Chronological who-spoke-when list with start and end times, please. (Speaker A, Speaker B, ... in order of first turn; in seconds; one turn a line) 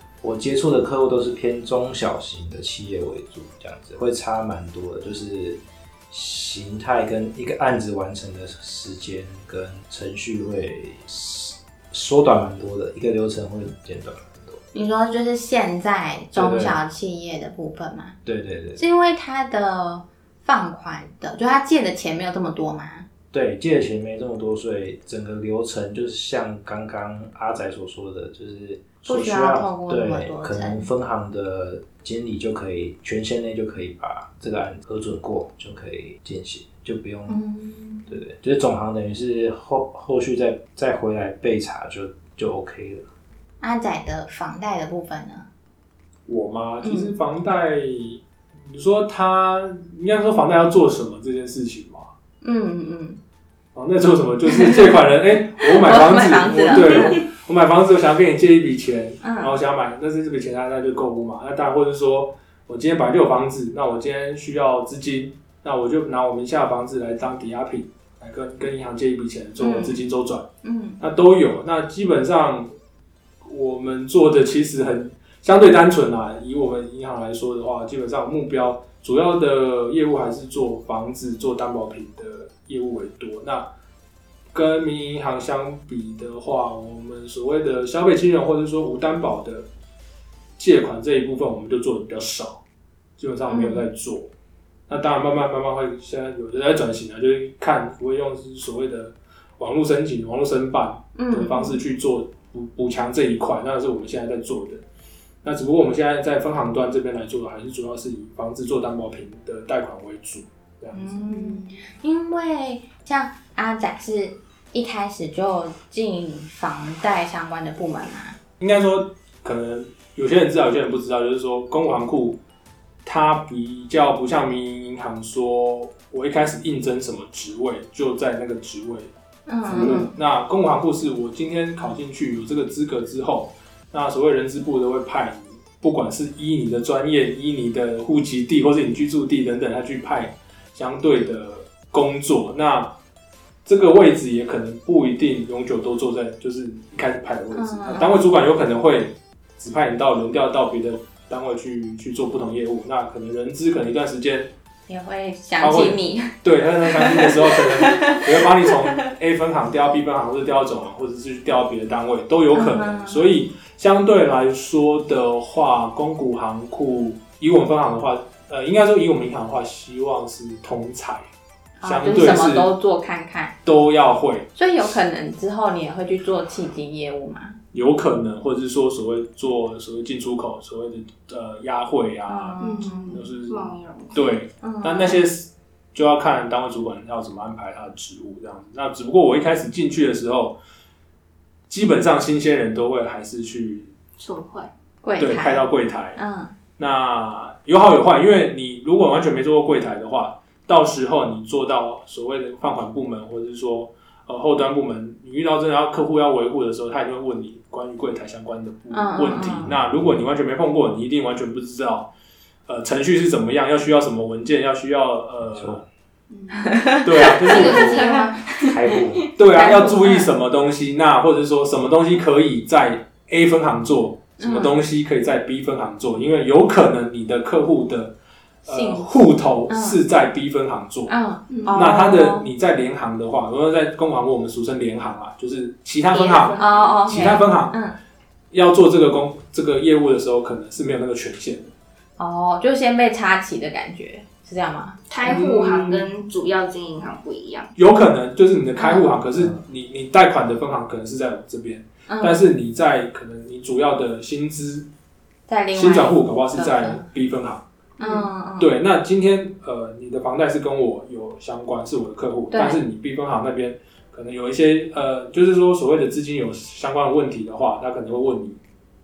Speaker A: 0.2-14.6
Speaker B: 14.7-18.1
Speaker A: 16.3-16.8
Speaker A: 18.2-18.8
Speaker B: 18.8-23.1
Speaker A: 23.3-37.4
Speaker B: 29.0-30.9
Speaker B: 37.3-38.2
Speaker A: 38.1-43.0
Speaker B: 43.6-45.5
Speaker C: 46.3-52.1
Speaker B: 46.8-47.1
Speaker B: 52.4-53.2
Speaker C: 53.7-70.5
Speaker B: 54.5-55.0
Speaker B: 55.6-57.2
Speaker B: 59.2-59.5
Speaker B: 69.6-70.0
Speaker B: 70.6-71.0
Speaker C: 71.0-72.7
Speaker C: 73.4-83.7
Speaker C: 84.5-89.7
Speaker C: 90.6-92.6
Speaker C: 93.2-94.3
Speaker B: 93.5-93.8
Speaker C: 94.9-104.8
Speaker B: 101.2-101.8
Speaker C: 105.4-111.2
Speaker B: 110.9-118.4
Speaker D: 111.3-111.8
Speaker C: 118.6-122.4
Speaker C: 123.0-129.1
Speaker B: 129.5-130.1
Speaker C: 129.7-142.9
Speaker C: 143.7-154.5
Speaker B: 147.5-148.3
Speaker B: 154.9-156.3
Speaker C: 155.6-171.2
Speaker B: 156.9-158.9
Speaker B: 162.5-163.3
Speaker B: 171.8-173.5
Speaker C: 171.8-172.7
Speaker C: 173.6-174.5
Speaker B: 174.5-177.6
Speaker C: 177.7-190.6
Speaker B: 182.3-183.2
Speaker D: 182.6-184.3
Speaker B: 184.6-185.2
Speaker C: 191.7-193.9
Speaker D: 194.2-194.7
Speaker B: 195.0-196.5
Speaker C: 195.2-196.2
Speaker C: 196.8-212.1
Speaker B: 208.9-209.7
Speaker A: 209.4-210.2
Speaker C: 212.7-215.8
Speaker A: 215.5-215.8
Speaker D: 216.3-216.8
Speaker B: 216.6-218.4
Speaker C: 217.0-218.1
Speaker D: 217.4-218.9
Speaker A: 218.6-219.3
Speaker C: 219.3-228.1
Speaker B: 219.5-220.3
Speaker B: 224.4-224.8
Speaker C: 228.6-231.1
Speaker B: 228.7-229.1
Speaker B: 229.7-230.0
Speaker B: 231.1-232.5
Speaker D: 231.5-231.8
Speaker C: 231.7-237.8
Speaker D: 236.1-237.4
Speaker B: 236.6-237.9
Speaker C: 238.5-241.7
Speaker B: 242.2-245.4
Speaker D: 245.1-247.7
Speaker C: 245.2-246.1
Speaker C: 247.8-254.9
Speaker B: 248.8-249.1
Speaker B: 252.1-252.5
Speaker B: 255.5-257.0
Speaker C: 255.7-257.6
Speaker D: 258.0-258.3
Speaker B: 258.0-258.7
Speaker C: 258.6-268.6
Speaker B: 262.5-262.8